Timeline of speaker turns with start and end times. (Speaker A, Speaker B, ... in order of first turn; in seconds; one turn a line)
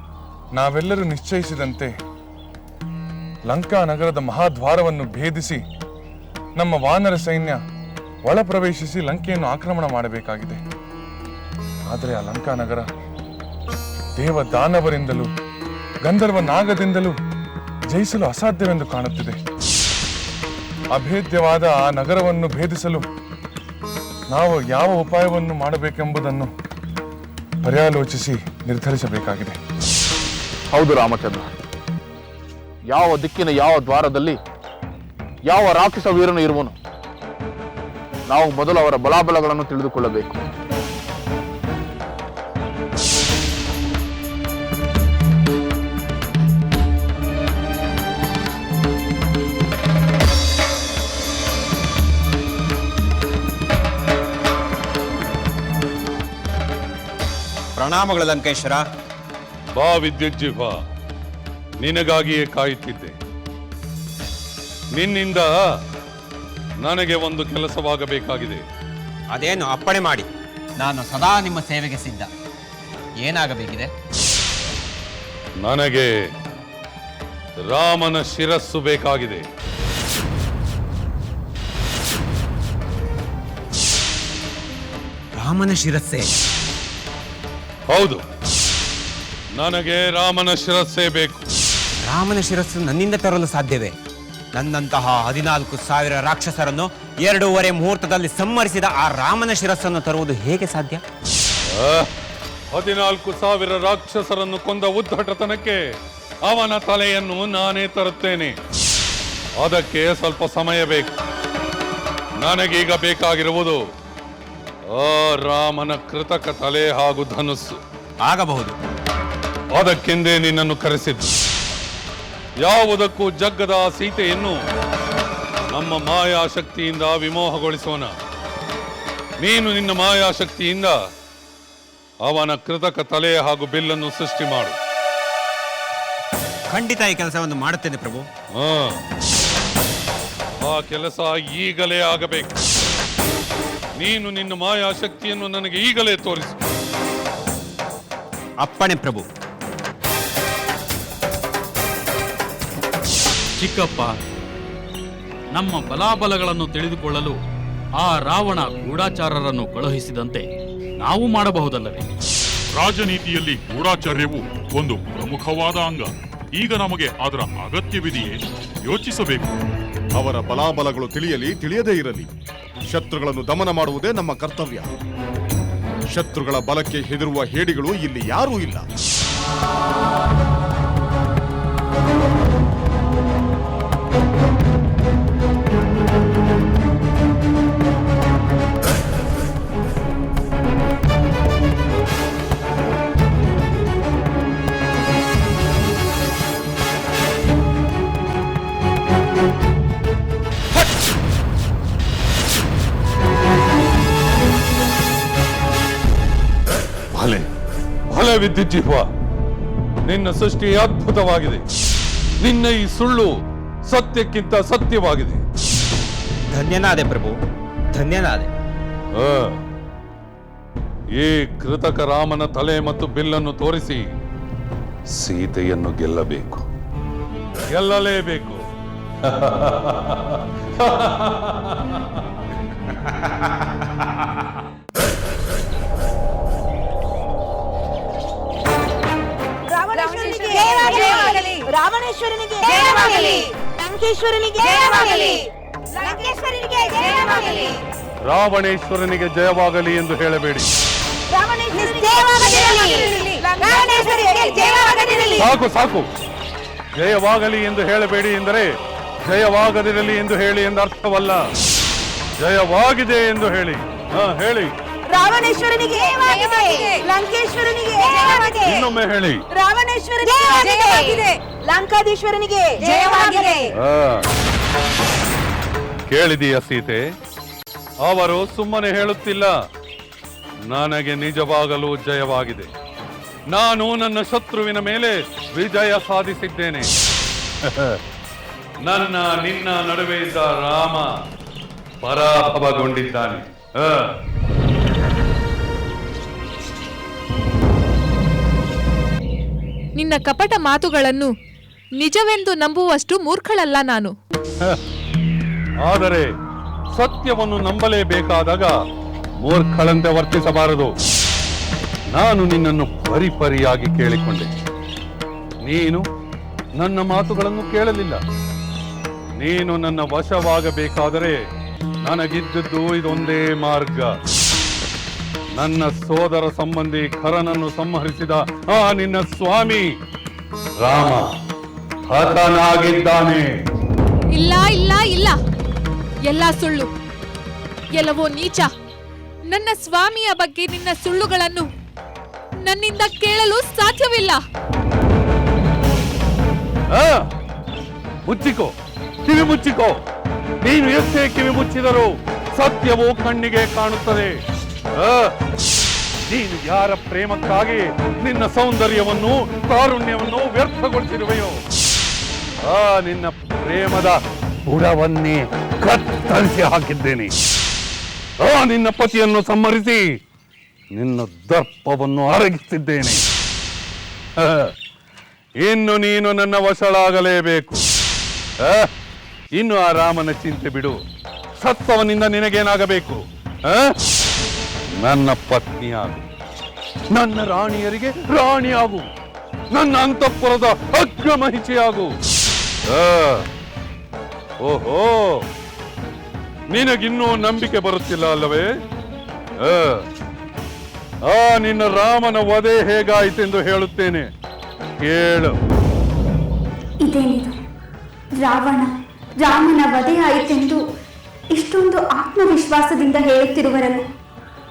Speaker A: 0.5-1.9
Speaker A: 3.5-5.6
Speaker A: 6.6-7.6
Speaker A: 8.3-10.6
Speaker A: 11.9-12.9
Speaker A: 14.2-15.3
Speaker A: 16.0-17.2
Speaker A: 17.9-19.4
Speaker A: 20.9-23.1
Speaker A: 24.3-26.5
Speaker A: 27.6-29.6
Speaker B: 30.7-31.5
Speaker B: 32.9-34.4
Speaker B: 35.5-36.8
Speaker B: 38.3-40.4
Speaker C: 57.8-58.9
Speaker D: 59.8-60.8
Speaker D: 61.8-63.1
Speaker D: 65.0-65.5
Speaker D: 66.8-68.6
Speaker C: 69.3-70.3
Speaker C: 70.8-72.3
Speaker C: 73.2-73.9
Speaker D: 75.6-76.1
Speaker D: 77.7-79.5
Speaker C: 85.3-86.3
Speaker D: 87.9-88.2
Speaker D: 89.6-91.5
Speaker C: 92.0-93.9
Speaker C: 94.5-101.0
Speaker D: 101.7-102.1
Speaker D: 102.7-105.8
Speaker D: 106.4-108.5
Speaker D: 109.6-111.1
Speaker D: 112.4-113.8
Speaker D: 114.9-117.8
Speaker C: 118.2-118.7
Speaker D: 119.8-121.3
Speaker D: 122.6-124.6
Speaker D: 125.7-128.1
Speaker D: 129.4-130.9
Speaker D: 132.3-134.8
Speaker C: 136.7-138.3
Speaker D: 138.6-139.0
Speaker D: 140.7-142.6
Speaker D: 144.0-146.6
Speaker C: 148.6-149.3
Speaker E: 153.6-154.1
Speaker E: 155.5-157.4
Speaker E: 158.0-160.5
Speaker E: 161.0-162.1
Speaker F: 162.8-169.6
Speaker G: 170.1-172.3
Speaker G: 172.9-174.9
Speaker G: 176.1-178.9
Speaker D: 207.1-207.5
Speaker D: 208.1-209.1
Speaker D: 210.1-211.6
Speaker D: 212.4-213.3
Speaker D: 213.9-215.4
Speaker C: 216.5-217.4
Speaker C: 217.9-218.5
Speaker D: 219.1-219.6
Speaker D: 221.2-224.1
Speaker D: 225.1-226.6
Speaker D: 227.7-228.6
Speaker D: 229.2-232.2
Speaker H: 239.7-245.4
Speaker H: 246.0-247.8
Speaker D: 248.3-250.7
Speaker H: 251.3-255.5
Speaker D: 255.4-256.1
Speaker D: 257.0-258.7
Speaker D: 259.2-261.4
Speaker D: 262.4-264.7
Speaker H: 265.1-268.9
Speaker D: 268.6-269.4
Speaker H: 269.5-273.7
Speaker D: 273.7-274.3
Speaker D: 276.1-277.0
Speaker D: 278.1-279.5
Speaker D: 280.7-282.7
Speaker D: 283.5-286.9
Speaker D: 287.6-288.0
Speaker D: 288.8-291.1
Speaker D: 292.0-294.1
Speaker I: 300.0-301.3
Speaker I: 302.0-304.1
Speaker D: 305.8-306.3
Speaker D: 306.9-308.7
Speaker D: 309.4-310.9
Speaker D: 312.1-314.5
Speaker D: 315.6-316.1
Speaker D: 316.8-318.2
Speaker D: 319.4-321.4
Speaker D: 322.0-324.2
Speaker D: 325.6-329.9
Speaker D: 330.8-331.3
Speaker D: 332.1-333.5
Speaker I: 334.3-335.4
Speaker I: 336.3-336.9
Speaker I: 337.9-338.7
Speaker I: 339.5-341.7
Speaker I: 342.6-344.4
Speaker D: 346.9-347.3
Speaker D: 348.3-348.7
Speaker D: 349.3-350.0
Speaker D: 350.6-354.4
Speaker D: 355.0-355.3
Speaker D: 356.3-361.6
Speaker D: 362.7-367.3
Speaker D: 368.4-370.0
Speaker D: 371.0-373.2
Speaker D: 374.4-374.7
Speaker D: 375.6-377.8
Speaker D: 378.6-378.9
Speaker D: 379.6-381.0
Speaker D: 381.6-384.0
Speaker D: 385.0-386.2
Speaker D: 387.1-389.1
Speaker D: 389.7-392.1
Speaker D: 392.9-393.5
Speaker D: 394.6-395.5
Speaker D: 396.7-398.7
Speaker D: 399.6-400.0
Speaker D: 401.2-404.3
Speaker D: 405.0-405.6
Speaker J: 407.0-407.6
Speaker J: 408.4-410.8
Speaker J: 411.5-414.1